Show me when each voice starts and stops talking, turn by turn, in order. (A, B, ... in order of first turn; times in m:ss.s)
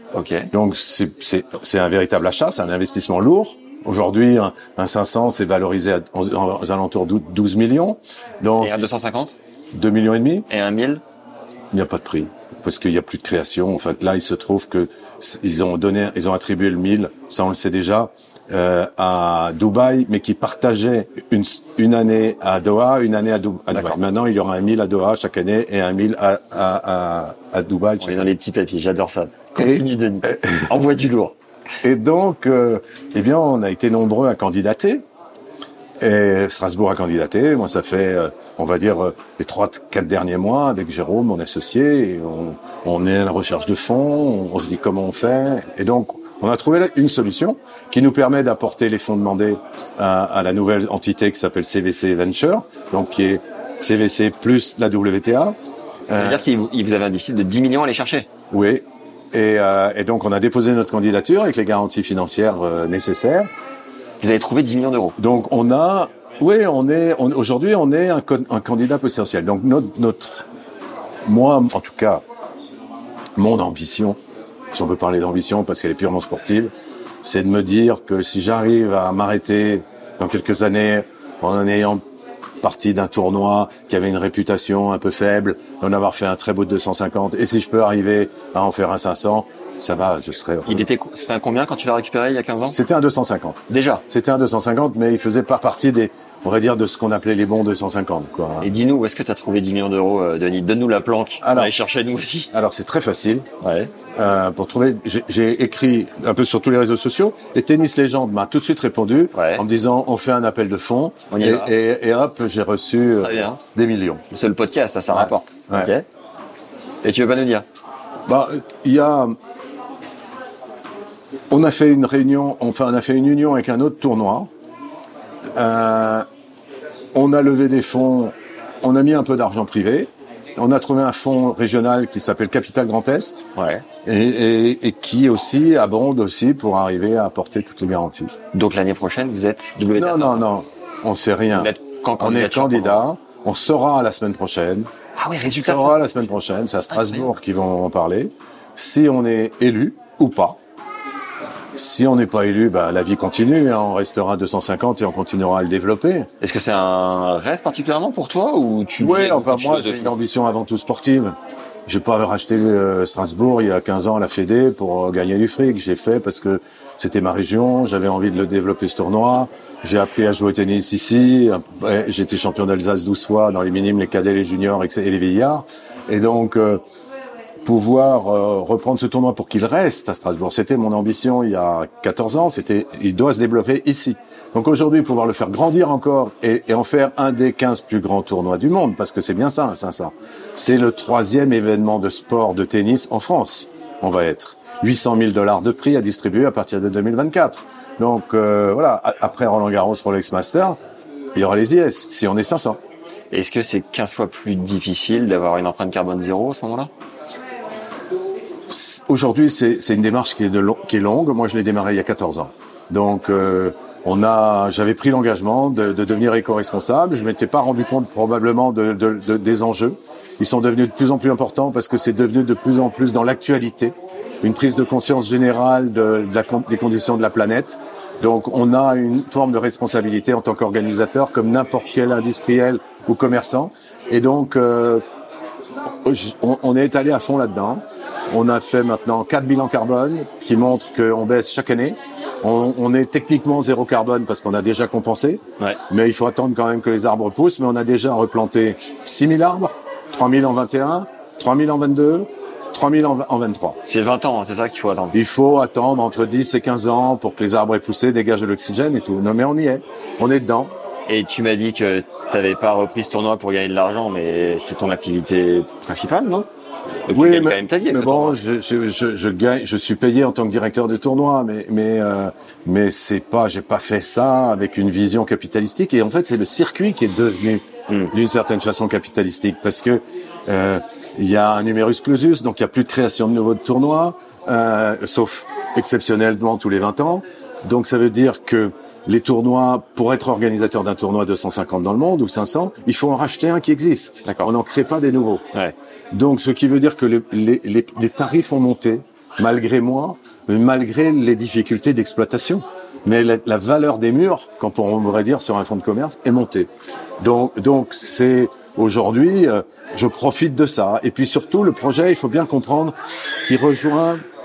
0:00.1-0:00.5 A
0:00.5-0:08.8 B
0:08.6-0:09.4 A
0:09.7-0:10.5 B
0:10.5-0:11.0 A
0:11.7-0:28.3 B
0:28.0-0:31.4 A
0:29.6-0:30.6 B
0:31.8-0:35.0 B
0:36.0-0:55.6 B
0:56.1-0:58.3 A
0:56.1-0:56.4 B
0:58.5-1:03.5 B
1:04.2-1:05.2 A
1:05.2-1:10.5 B
1:11.3-1:12.2 B
1:13.4-1:14.2 B
1:14.7-1:22.0 B
1:22.6-1:30.9 B
1:30.6-1:32.8 A
1:32.7-1:38.7 B
1:33.7-1:34.0 A
1:38.6-1:42.5 A
1:41.4-1:41.7 B
1:42.5-1:43.5 B
1:43.6-1:43.9 A
1:44.2-1:54.2 B
1:49.3-1:49.6 A
1:51.3-1:51.7 A
1:53.2-1:53.6 A
1:54.3-1:56.0 A
1:55.1-1:55.9 B
1:57.0-1:57.7 A
1:58.3-1:59.4 B
2:01.5-2:04.5 B
2:05.6-2:06.2 B
2:07.1-2:13.5 B
2:13.6-2:13.8 A
2:14.0-2:18.3 B
2:18.5-2:20.5 A
2:19.9-2:24.9 B
2:21.5-2:23.1 A
2:25.2-2:26.2 A
2:25.5-2:30.6 B
2:26.9-2:27.3 A
2:31.8-2:36.3 B
2:36.4-2:40.1 A
2:39.0-2:41.4 B
2:41.9-2:56.8 B
2:57.6-3:20.8 B
3:21.4-3:22.8 B
3:23.3-3:26.9 A
3:28.7-3:55.0 B
3:55.9-4:13.8 B
4:13.9-4:15.2 A
4:15.1-4:20.7 B
4:21.1-4:26.5 A
4:27.1-4:28.4 A
4:27.1-4:55.4 B
4:54.2-4:54.5 A
4:56.1-5:12.9 B
5:13.5-5:14.2 B